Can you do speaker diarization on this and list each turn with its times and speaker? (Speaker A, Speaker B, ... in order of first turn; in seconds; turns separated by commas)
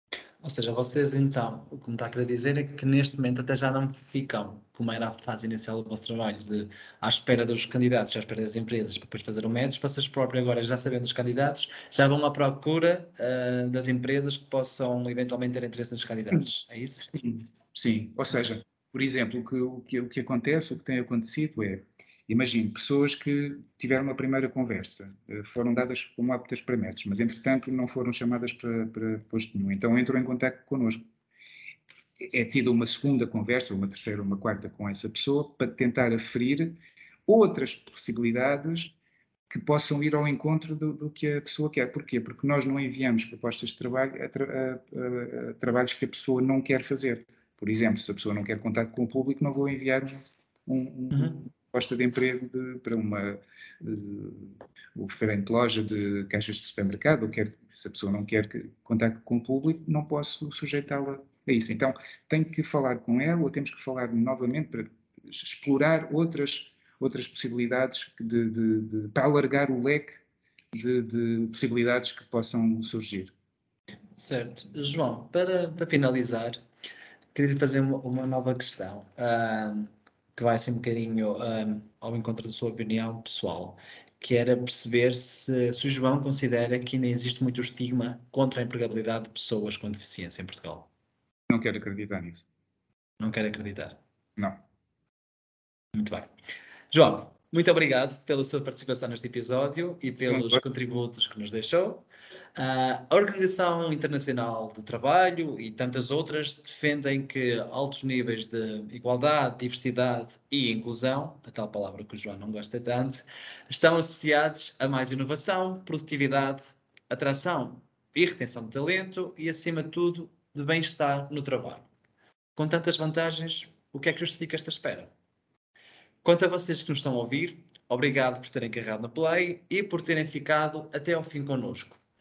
Speaker A: 0.4-17.1, Speaker B: 17.1-31.0, Speaker B: 32.2-39.0, Speaker B: 39.5-70.2, Speaker B: 70.7-73.3, Speaker A: 74.2-76.6, Speaker A: 77.3-90.9, Speaker B: 91.5-92.4, Speaker A: 93.2-94.0, Speaker A: 95.9-96.3, Speaker A: 96.9-102.0, Speaker B: 100.3-100.6, Speaker A: 102.5-121.9, Speaker A: 122.5-125.1, Speaker A: 126.2-132.0